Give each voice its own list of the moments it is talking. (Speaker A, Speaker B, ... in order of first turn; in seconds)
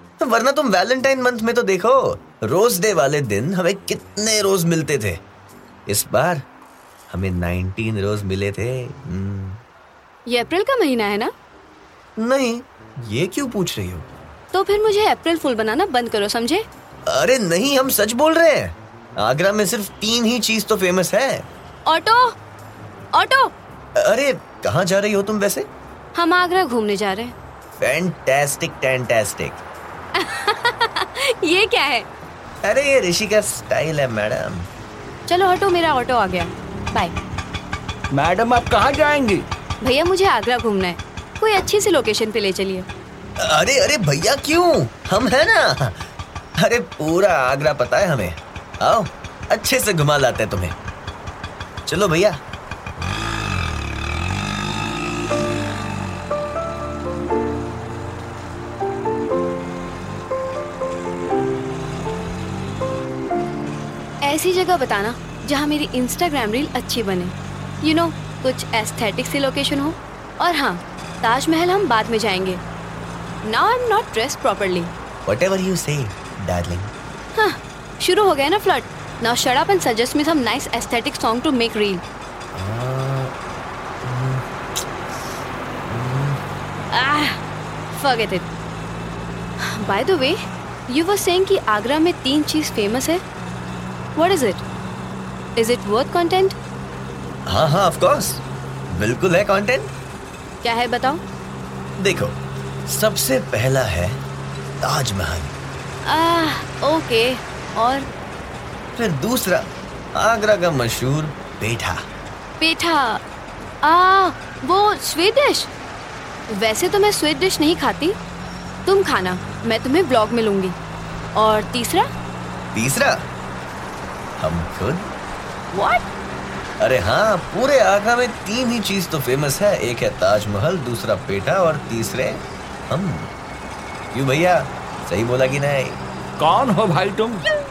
Speaker A: 0.2-5.2, 5.9-6.4, 7.1-9.6, 12.2-14.1, 17.1-21.5, 24.0-25.7, 27.8-29.6, 32.6-34.7, 43.4-46.1, 46.6-50.8, 51.9-52.4, 75.2-76.9, 82.5-83.3, 84.0-84.5, 85.9-86.4, 97.5-99.9, 102.0-102.3, 102.9-104.2, 104.8-105.5, 109.0-112.0, 122.7-123.2, 124.4-125.1, 126.8-133.3, 134.1-136.0
Speaker B: 10.3-11.3, 14.5-16.6, 21.9-22.4, 23.1-23.5, 26.1-27.3, 30.2-32.1, 35.3-37.1, 39.8-42.9, 64.2-72.6, 73.4-74.9, 77.4-82.0, 86.9-88.5, 89.7-90.4, 90.9-93.2, 94.2-94.6, 95.6-96.6, 100.6-101.2, 106.0-108.1, 112.6-113.2, 113.8-115.7, 116.5-118.2, 118.9-120.8, 121.4-122.1, 125.7-126.1
Speaker C: 38.1-39.5, 136.4-137.4